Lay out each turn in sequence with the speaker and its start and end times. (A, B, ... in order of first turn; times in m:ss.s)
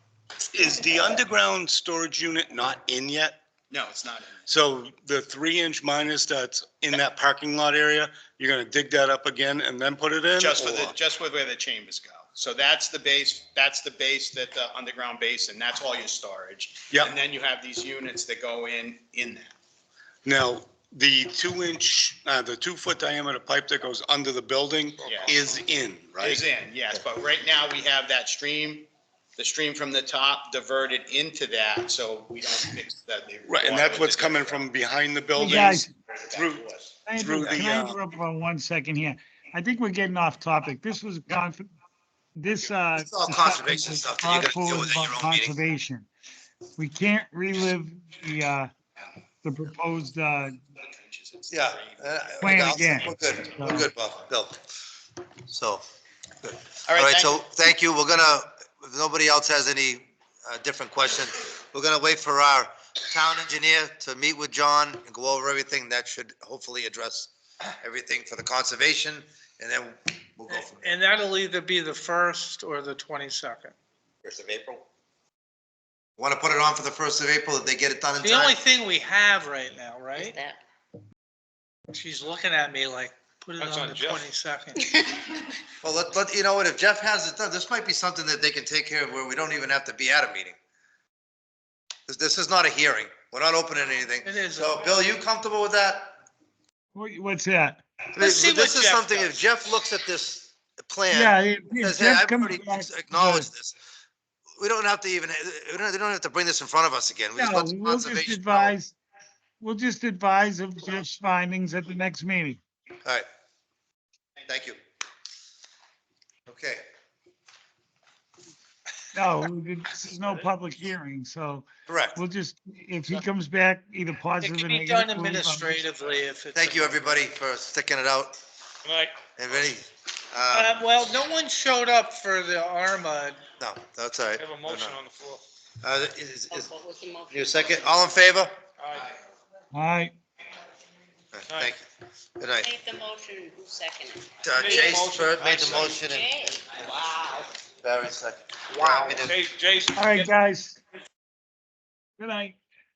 0:00.5-0:03.4 A
0:03.7-0:04.4 B
0:04.5-0:11.0 A
0:10.4-0:19.6 B
0:16.9-0:17.2 A
0:20.2-0:26.4 A
0:25.0-0:25.4 B
0:26.2-0:34.7 B
0:33.5-0:38.0 A
0:35.4-0:35.9 C
0:36.3-0:36.7 B
0:37.0-0:41.7 C
0:42.4-0:46.1 C
0:43.0-0:45.6 D
0:46.8-0:48.7 C
0:49.4-0:50.6 C
0:50.9-0:52.5 B
0:51.5-0:54.6 D
0:52.4-0:53.9 C
0:55.5-0:55.8 D
0:56.4-1:10.9 D
0:56.9-0:57.4 B
1:10.5-1:13.8 E
1:14.3-1:14.8 D
1:16.2-1:18.6 D
1:18.2-1:20.4 E
1:20.2-1:20.6 F
1:21.9-1:24.9 E
1:23.6-1:24.3 G
1:25.8-1:30.6 D
1:32.1-1:36.2 D
1:34.2-1:34.8 E
1:36.9-1:37.8 C
1:38.2-1:43.8 D
1:38.2-1:39.4 E
1:41.1-1:43.5 C
1:44.6-1:48.8 D
1:47.4-1:49.0 C
1:49.6-1:52.6 C
1:54.4-1:54.8 D
1:56.5-1:56.8 D
1:59.1-2:05.8 C
2:01.9-2:02.2 D
2:04.4-2:07.3 E
2:06.6-2:08.4 D
2:08.8-2:09.2 G
2:09.4-2:10.8 D
2:10.5-2:13.4 E
2:13.6-2:15.0 D
2:14.4-2:15.4 G
2:15.8-2:16.7 D
2:16.5-2:17.8 F
2:17.3-2:18.5 D
2:18.8-2:19.1 G
2:19.7-2:20.1 C
2:21.3-2:21.9 D
2:22.4-2:22.7 D
2:22.6-2:24.3 F
2:24.4-2:26.6 D
2:24.5-2:26.0 G
2:26.0-2:27.5 F
2:27.8-2:29.4 D
2:29.0-2:30.3 G
2:30.0-2:30.8 C
2:32.2-2:32.6 C